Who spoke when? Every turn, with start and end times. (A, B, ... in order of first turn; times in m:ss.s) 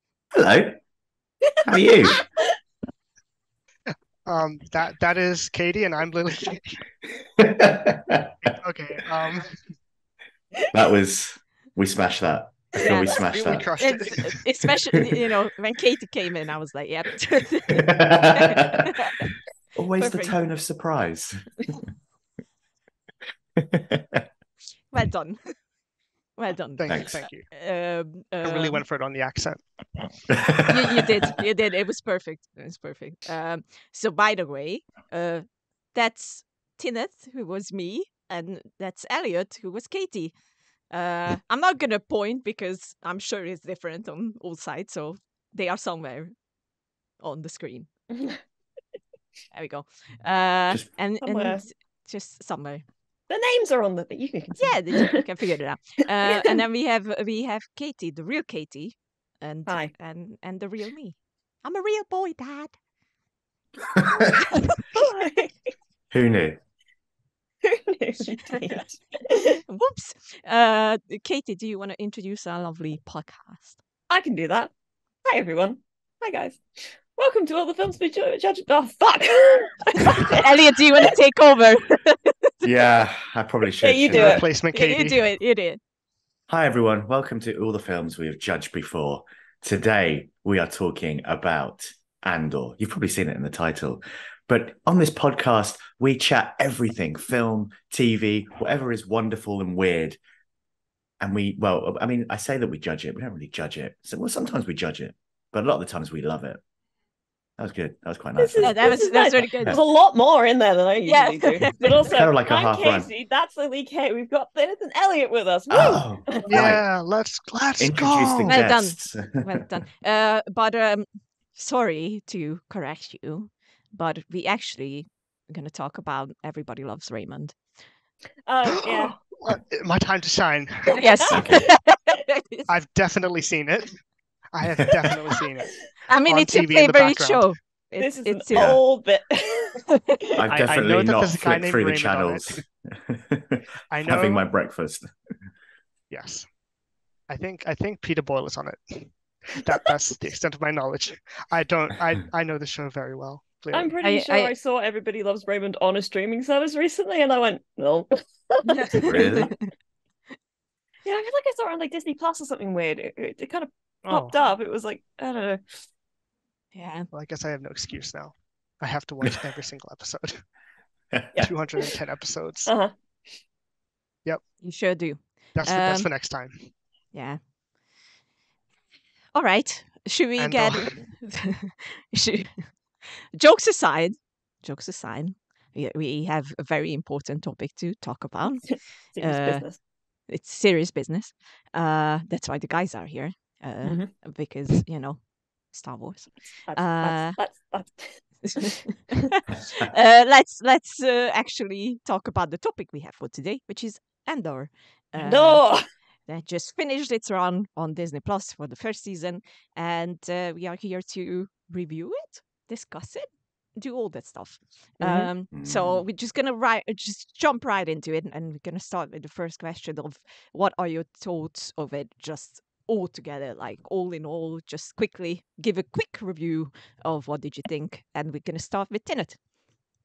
0:00.3-0:00.8 A
0:01.7-0:02.3 A
0:01.9-0:02.4 B
0:03.9-0:06.8 C
0:07.4-0:08.5 A
0:08.5-0:09.6 C
0:10.7-0:13.7 A
0:12.8-0:13.2 D
0:13.1-0:14.4 C
0:13.8-0:19.3 D
0:15.0-0:15.2 A
0:17.7-0:19.1 A
0:19.8-0:21.7 A
0:20.0-0:20.4 D
0:23.6-0:24.3 A
0:24.9-0:25.6 D
0:26.4-0:28.8 D
0:26.8-0:27.5 C
0:26.9-0:27.2 A
0:28.4-0:29.6 C
0:30.3-0:31.1 A
0:30.7-0:40.4 D
0:40.9-0:46.4 D
0:47.2-0:47.9 D
0:48.1-0:48.4 B
0:49.5-0:52.8 D
0:51.2-0:51.7 B
0:53.3-0:55.2 B
0:54.6-1:02.7 D
0:56.3-0:56.6 B
1:04.0-1:04.6 A
1:04.9-1:05.5 B
1:06.1-1:06.6 A
1:07.6-1:09.6 B
1:09.7-1:13.8 D
1:14.1-1:14.7 B
1:15.2-1:20.5 B
1:20.0-1:22.7 D
1:22.6-1:24.4 A
1:23.8-1:24.4 B
1:24.1-1:25.2 C
1:24.7-1:25.8 D
1:26.5-1:40.2 A
1:41.2-1:46.6 A
1:47.6-1:48.8 A
1:48.4-1:56.7 B
1:48.6-1:49.8 D
1:51.1-1:52.1 D
1:52.1-1:53.1 A
1:55.7-1:56.8 A
1:56.5-1:58.6 C
1:57.8-1:59.6 A
1:58.5-2:07.6 D
2:08.5-2:09.2 B
2:08.8-2:11.0 C
2:10.9-2:12.7 D
2:11.3-2:11.7 A
2:12.7-2:17.5 C
2:16.1-2:18.8 D
2:18.0-2:19.8 B
2:18.5-2:18.8 A
2:20.4-2:25.1 A
2:20.5-2:22.6 C
2:23.9-2:24.4 C
2:26.1-2:26.5 C
2:27.3-2:33.9 C
2:33.7-2:39.2 B
2:34.0-2:34.5 D
2:38.7-2:39.6 D
2:39.0-2:39.5 A
2:41.0-2:45.8 B
2:44.1-2:44.4 C
2:46.7-2:47.1 D
2:47.1-2:50.4 C
2:51.4-2:52.7 C
2:52.7-2:52.9 B
2:54.6-2:56.1 D
2:55.6-2:56.7 C
2:57.1-2:57.4 D
2:59.3-3:09.7 D
3:00.4-3:01.0 C
3:08.7-3:09.8 B
3:10.3-3:17.4 D
3:13.8-3:14.1 B
3:16.7-3:18.7 B
3:18.4-3:25.7 D
3:25.2-3:25.8 B
3:26.3-3:49.4 D
3:35.0-3:35.3 B
3:35.5-3:36.0 A